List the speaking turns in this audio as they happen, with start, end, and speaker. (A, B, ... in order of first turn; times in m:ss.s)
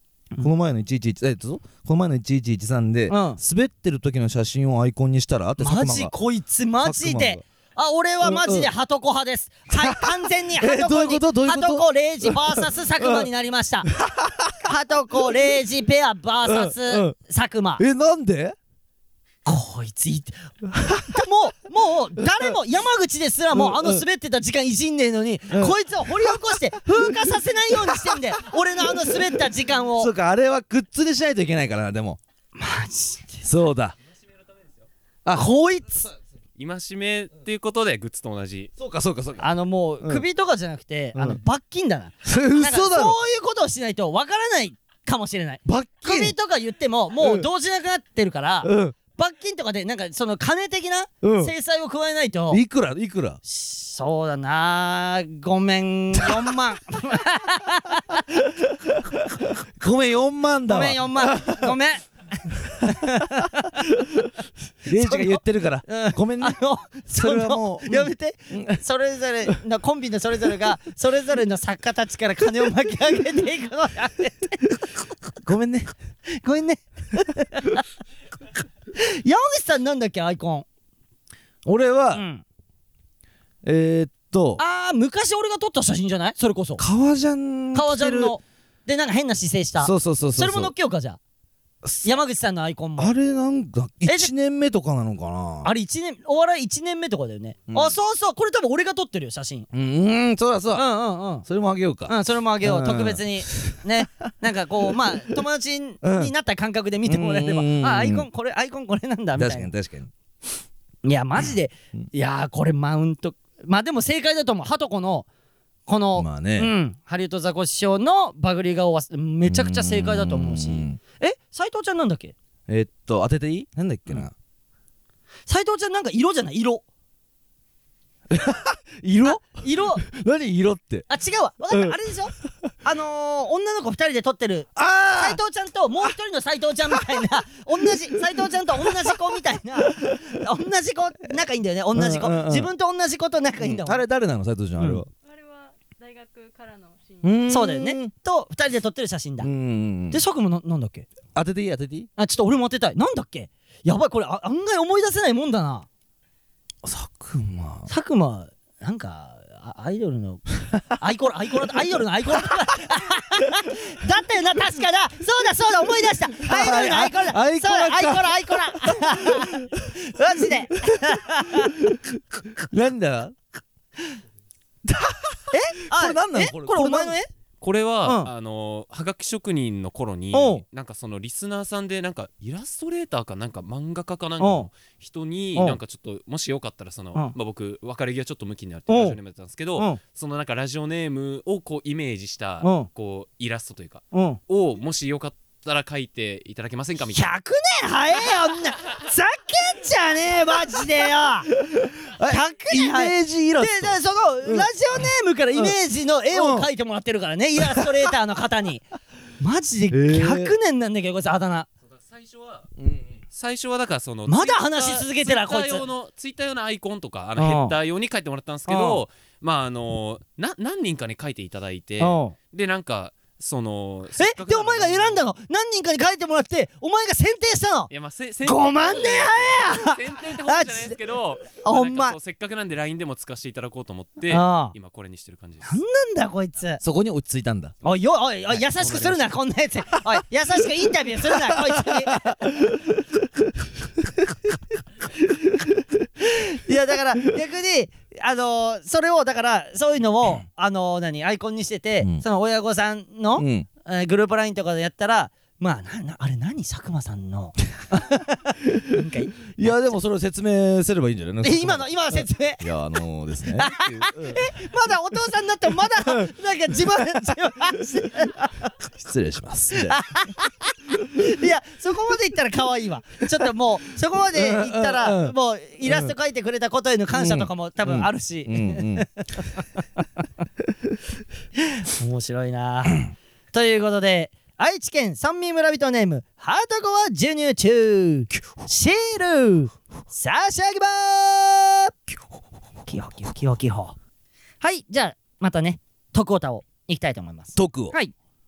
0:00.4-0:06.1 A
0:03.1-0:03.4 B
0:05.6-0:13.9 B
0:06.8-0:07.4 A
0:08.2-0:08.7 A
0:09.7-0:13.3 A
0:13.9-0:14.6 A
0:14.6-0:17.8 B
0:16.4-0:17.1 A
0:17.8-0:18.6 A
0:19.4-0:20.4 B
0:20.7-0:21.2 A
0:21.0-0:30.1 B
0:23.5-0:24.0 A
0:25.5-0:28.2 A
0:29.9-0:32.2 A
0:32.6-0:33.4 B
0:33.4-0:34.0 A
0:35.3-0:36.1 B
0:36.6-0:38.7 C
0:38.8-0:39.5 A
0:39.4-0:52.6 B
0:41.1-0:41.4 A
0:42.2-0:43.2 A
0:45.6-0:46.3 A
0:47.2-0:47.5 A
0:48.6-0:49.0 A
0:51.2-0:51.5 A
0:52.5-0:53.4 A
0:53.4-0:58.2 B
0:56.2-0:56.5 A
0:58.6-1:01.7 A
1:00.7-1:03.9 B
1:04.8-1:06.6 A
1:04.9-1:14.7 B
1:07.1-1:08.8 A
1:15.4-1:15.9 A
1:16.3-1:17.8 B
1:19.0-1:20.6 B
1:21.6-1:22.2 A
1:22.1-1:22.4 B
1:23.6-1:24.6 A
1:24.6-1:26.8 B
1:26.8-1:28.4 A
1:27.7-1:31.2 B
1:29.8-1:30.7 A
1:32.0-1:33.1 B
1:33.0-1:35.7 A
1:34.0-1:34.3 B
1:35.6-1:39.7 B
1:37.7-1:37.9 A
1:39.7-1:40.8 A
1:40.7-1:41.4 B
1:41.4-1:44.0 A
1:42.1-1:49.7 B
1:46.0-1:46.3 A
1:47.0-1:48.3 A
1:49.4-1:50.1 A
1:51.0-1:55.2 B
1:51.4-1:52.0 A
1:55.9-2:02.3 B
1:56.2-1:56.7 A
1:59.4-2:01.0 A
2:02.7-2:04.3 A
2:05.5-2:06.8 B
2:08.3-2:11.1 A
2:09.2-2:10.0 B
2:11.1-2:24.0 B
2:11.7-2:12.0 A
2:14.8-2:15.4 A
2:16.9-2:17.2 A
2:18.8-2:19.1 A
2:19.9-2:20.2 A
2:21.9-2:22.7 A
2:23.6-2:25.1 A
2:24.8-2:25.0 B
2:25.2-2:27.5 D
2:27.2-2:28.1 A
2:27.5-2:29.5 B
2:29.4-2:30.2 A
2:30.1-2:31.1 B
2:31.3-2:32.1 A
2:32.2-2:35.8 B
2:36.8-2:37.9 A
2:37.9-2:51.8 B
2:46.4-2:49.9 A
2:51.6-2:52.0 A
2:52.6-2:53.4 A
2:54.8-2:57.2 A
2:55.5-2:57.3 B
2:57.6-3:17.3 C
2:58.0-2:58.3 B
3:00.3-3:00.6 B
3:04.4-3:04.7 B
3:08.9-3:09.2 B
3:12.6-3:12.9 B
3:14.1-3:14.4 B
3:17.1-3:21.5 B
3:21.6-3:24.7 A
3:22.3-3:28.8 B
3:26.3-3:26.7 A
3:27.6-3:27.9 A
3:29.4-3:31.7 B
3:29.9-3:30.5 A
3:31.9-3:32.7 C
3:32.8-3:33.1 A
3:33.3-3:45.2 C
3:34.3-3:35.8 B
3:37.4-3:37.8 B
3:38.7-3:39.0 B
3:42.0-3:42.3 B
3:44.2-3:47.9 B
3:47.9-3:55.8 C
3:48.4-3:51.0 B
3:51.6-3:52.2 B
3:54.3-3:54.7 B
3:55.6-3:56.8 B
3:56.8-3:57.7 A
3:57.8-4:02.3 B
3:58.8-3:59.2 C
4:01.3-4:02.8 A
4:06.2-4:19.8 B
4:13.4-4:13.7 A
4:19.5-4:24.5 A
4:21.4-4:22.7 B
4:23.5-4:28.7 B
4:29.0-4:30.0 A
4:29.7-4:39.6 B
4:34.3-4:35.3 A
4:35.8-4:36.1 A
4:37.1-4:39.1 A
4:41.6-4:51.9 B
4:52.9-4:54.0 B
4:54.6-4:58.1 B
4:57.5-4:57.9 A